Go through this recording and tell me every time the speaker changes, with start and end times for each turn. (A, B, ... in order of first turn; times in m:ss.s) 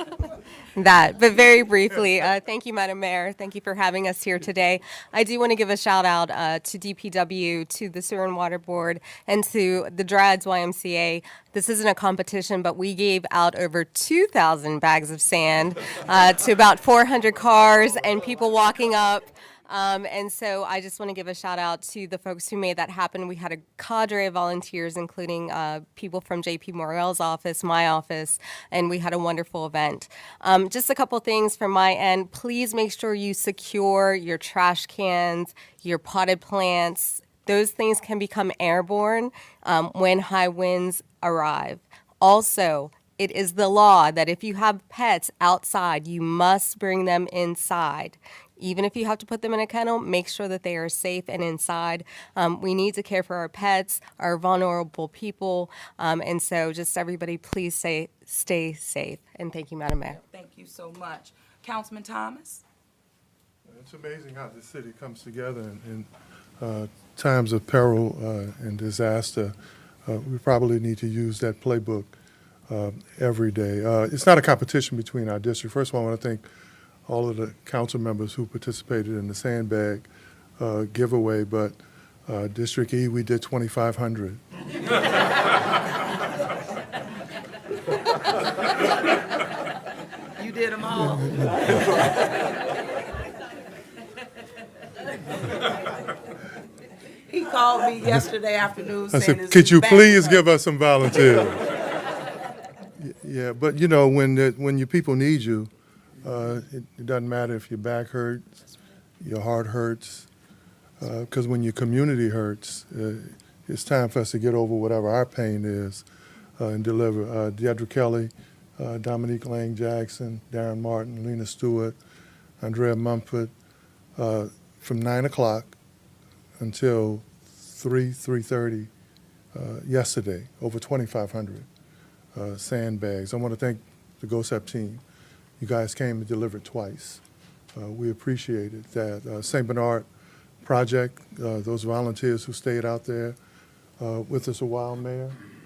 0:00.8-1:00.2 A
1:00.1-1:02.6 B
1:03.7-1:06.1 C
1:06.6-1:09.5 C
1:10.0-1:12.1 C
1:12.7-1:16.5 C
1:17.0-1:20.1 C
1:20.6-1:24.4 C
1:30.4-1:32.2 B
1:31.0-1:31.8 C
1:37.3-1:40.4 B
1:39.1-1:41.7 C
1:43.0-1:45.7 C
1:46.2-1:48.5 C
1:49.2-1:50.3 C
1:51.0-1:56.0 C
1:56.6-2:02.0 C
2:02.6-2:03.5 C
2:04.2-2:05.7 C
2:06.6-2:08.9 C
2:09.5-2:11.7 C
2:12.3-2:15.0 C
2:15.6-2:17.2 C
2:17.7-2:20.1 C
2:20.6-2:23.4 C
2:24.0-2:25.4 C